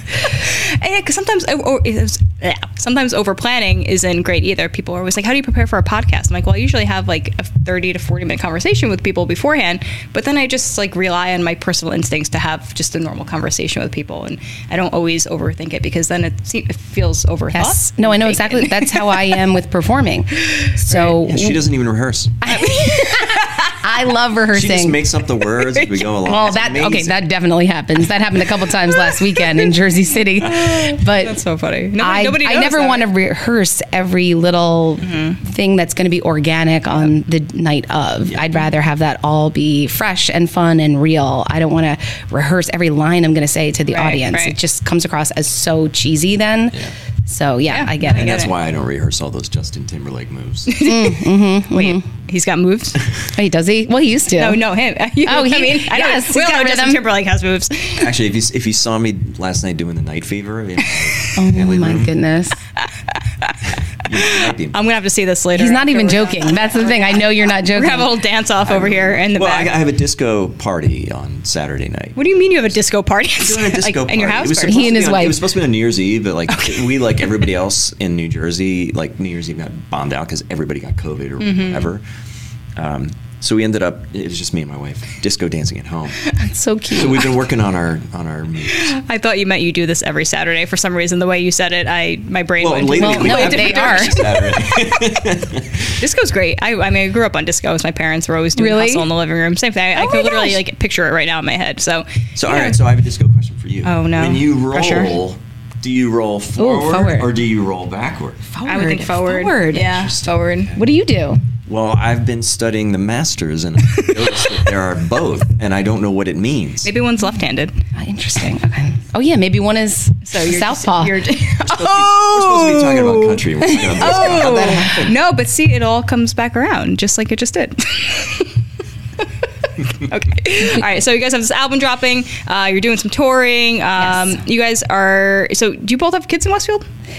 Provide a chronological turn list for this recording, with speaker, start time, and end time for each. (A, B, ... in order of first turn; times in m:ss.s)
0:00.2-0:19.2 A
0:17.5-0:21.6 B
0:20.5-0:21.1 A
0:21.1-0:22.4 C
0:22.4-0:25.0 B
0:22.4-0:23.8 A
0:24.5-0:27.2 C
0:25.6-0:25.9 A
0:26.2-0:31.4 B
0:28.9-0:29.6 A
0:30.4-0:33.1 A
0:32.0-0:48.4 B
0:35.0-0:35.4 A
0:43.9-0:44.6 A
0:47.7-0:48.5 A
0:48.0-0:50.8 C
0:50.7-0:53.0 A
0:50.8-0:52.0 B
0:53.3-0:54.6 B
0:54.4-0:58.1 A
0:55.2-0:57.0 B
0:58.0-1:02.1 C
1:00.8-1:01.3 A
1:01.3-1:02.6 B
1:02.8-1:09.7 A
1:03.9-1:04.8 C
1:05.5-1:08.1 B
1:08.6-1:12.5 C
1:12.2-1:14.9 A
1:13.4-1:22.0 C
1:14.7-1:15.4 B
1:16.5-1:17.4 A
1:21.4-1:21.9 A
1:22.8-1:26.3 C
1:26.4-1:27.3 B
1:26.9-1:28.9 C
1:28.7-1:34.9 A
1:32.6-1:36.0 C
1:33.0-1:34.3 B
1:36.0-1:42.8 A
1:38.6-1:39.1 B
1:39.9-1:40.6 B
1:42.4-1:48.5 C
1:43.8-1:45.1 A
1:46.6-1:47.3 B
1:48.5-1:50.1 B
1:48.6-1:50.8 A
1:49.9-1:50.3 C
1:50.7-1:51.4 B
1:51.6-1:56.9 C
1:54.0-1:54.5 A
1:56.8-1:57.8 A
1:57.9-2:01.2 B
2:00.2-2:08.5 A
2:01.6-2:05.2 C
2:03.7-2:04.9 B
2:09.2-2:16.8 A
2:14.0-2:14.4 B